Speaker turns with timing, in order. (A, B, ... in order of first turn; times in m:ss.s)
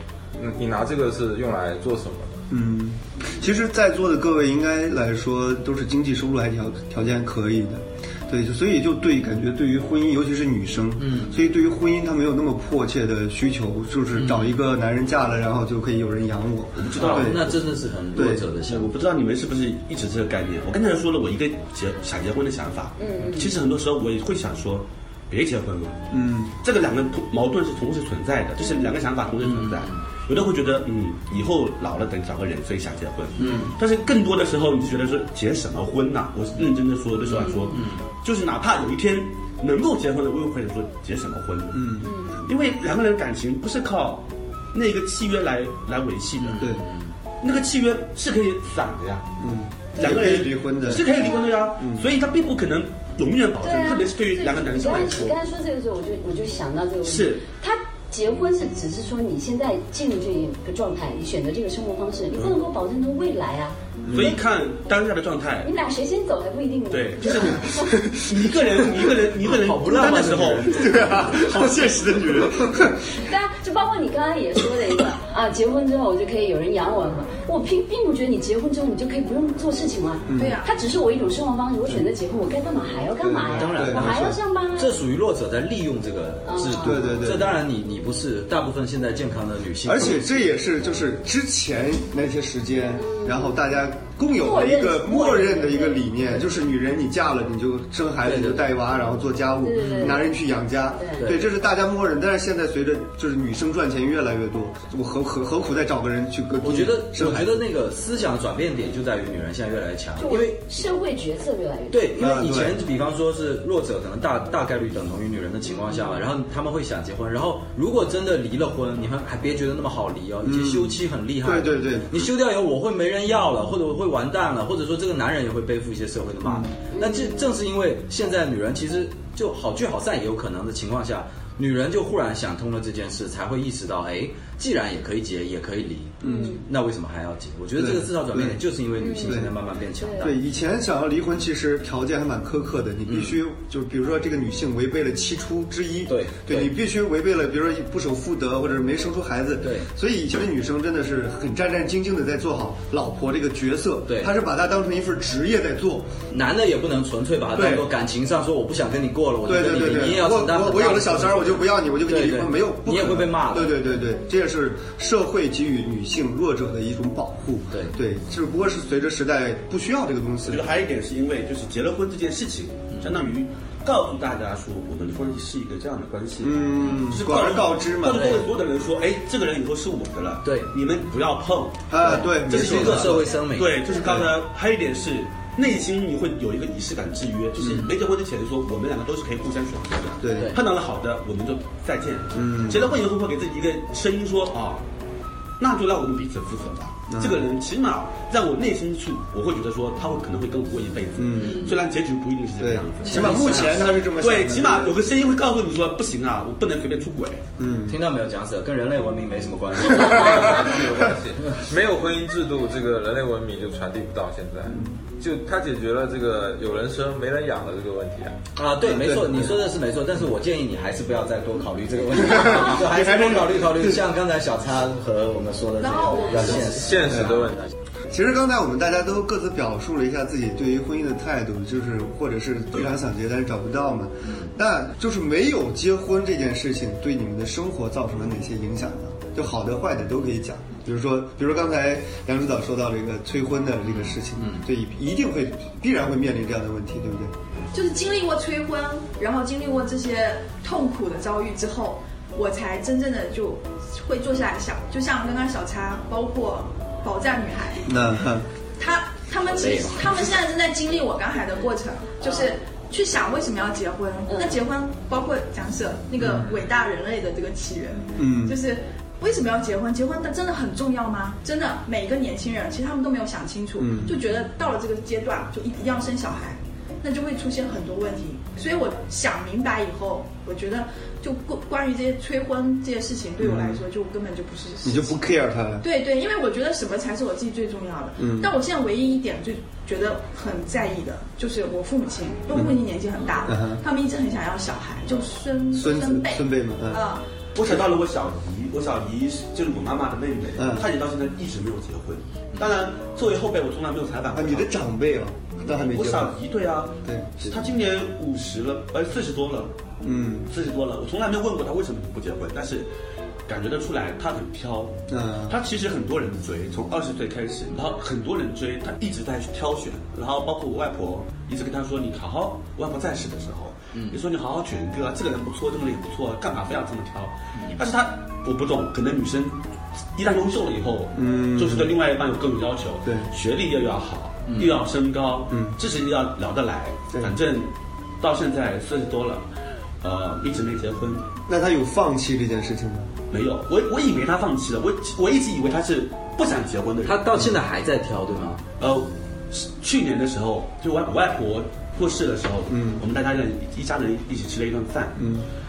0:00.4-0:02.4 A
0:02.5-0:17.4 B
0:11.0-0:11.4 C
0:14.2-0:14.5 C
0:16.8-0:17.6 D
0:17.0-0:18.9 C
0:18.2-0:18.5 B
0:18.7-0:26.0 D
0:23.0-0:23.5 E
0:26.1-0:26.5 B
0:26.6-0:46.7 D
0:29.4-0:30.0 C
0:33.4-0:33.8 C
0:37.4-0:37.7 E
0:37.7-0:38.1 C
0:41.7-0:42.1 B
0:42.0-0:42.4 E
0:46.4-0:47.1 C
0:47.4-0:49.3 D
0:49.4-0:51.1 B
0:50.0-0:55.4 D
0:51.8-0:52.0 B
0:53.6-1:03.8 E
0:57.0-0:57.4 D
1:04.0-1:04.4 B
1:04.1-1:05.7 D
1:05.6-1:07.9 E
1:06.9-1:11.0 D
1:07.8-1:08.5 B
1:09.4-1:11.6 C
1:10.7-1:13.0 B
1:13.1-1:25.0 E
1:20.3-1:20.6 B
1:20.3-1:20.7 F
1:23.2-1:24.4 B
1:23.4-1:30.3 C
1:26.5-1:27.0 E
1:26.8-1:27.6 B
1:29.8-1:47.6 B
1:33.0-1:33.6 E
1:34.3-1:36.4 E
1:38.2-1:38.7 C
1:39.6-1:40.3 E
1:39.8-1:40.2 C
1:41.0-1:41.2 E
1:41.2-1:41.5 C
1:46.6-1:50.6 C
1:50.2-1:52.1 E
1:51.9-2:20.4 C
1:52.2-1:52.8 B
2:00.4-2:02.3 B
2:06.4-2:06.7 B
2:06.9-2:07.4 E
2:16.2-2:16.5 B
2:16.3-2:16.6 E
2:17.8-2:18.6 B
2:19.0-2:19.4 E
2:19.2-2:19.5 B
2:20.0-2:20.3 E
2:20.2-2:36.1 B
2:23.1-2:23.4 C
2:26.1-2:26.7 C
2:29.6-2:29.9 C
2:34.1-2:34.3 C
2:36.3-2:43.9 C
2:39.5-2:50.7 B
2:47.7-2:48.0 C
2:50.5-3:14.8 D
2:56.4-2:58.4 B
2:58.1-2:58.5 C
3:00.4-3:00.7 C
3:01.9-3:03.3 B
3:02.0-3:04.2 C
3:04.0-3:04.2 B
3:10.2-3:10.6 B
3:12.4-3:12.9 B
3:15.6-3:27.4 D
3:17.1-3:17.4 B
3:21.2-3:21.7 B
3:22.6-3:25.0 B
3:23.1-3:23.9 C
3:27.6-3:28.0 B
3:27.9-3:31.0 C
3:30.0-3:38.4 A
3:38.6-3:47.6 C
3:38.8-3:39.6 B
3:42.4-3:44.0 B
3:45.8-3:47.0 F
3:46.8-3:47.7 A
3:47.1-3:47.4 B
3:48.1-4:07.3 B
4:04.0-4:04.6 C
4:07.7-4:17.9 F
4:17.9-4:18.5 B
4:18.8-4:45.3 F
4:19.5-4:20.2 C
4:26.2-4:26.5 B
4:28.2-4:28.6 B
4:33.8-4:34.1 B
4:43.4-4:43.8 B
4:44.8-4:45.9 B
4:45.8-4:57.2 F
4:48.2-4:48.5 B
4:53.5-4:53.8 B
4:55.7-4:57.0 B
4:57.6-5:04.8 D
5:00.6-5:00.9 B
5:04.3-5:06.3 B
5:05.7-5:09.7 D
5:10.0-5:10.5 B
5:10.5-5:12.9 D
5:13.5-5:29.6 D
5:15.1-5:15.6 B
5:23.9-5:24.2 C
5:27.6-5:27.8 C
5:30.2-5:39.4 D
5:31.2-5:31.9 B
5:34.5-5:34.8 C
5:35.5-5:35.8 B
5:40.0-5:41.3 D
5:41.5-5:43.1 B
5:43.3-5:47.2 D
5:47.0-5:48.6 C
5:48.8-5:55.2 D
5:52.7-5:53.0 B
5:55.2-5:55.5 B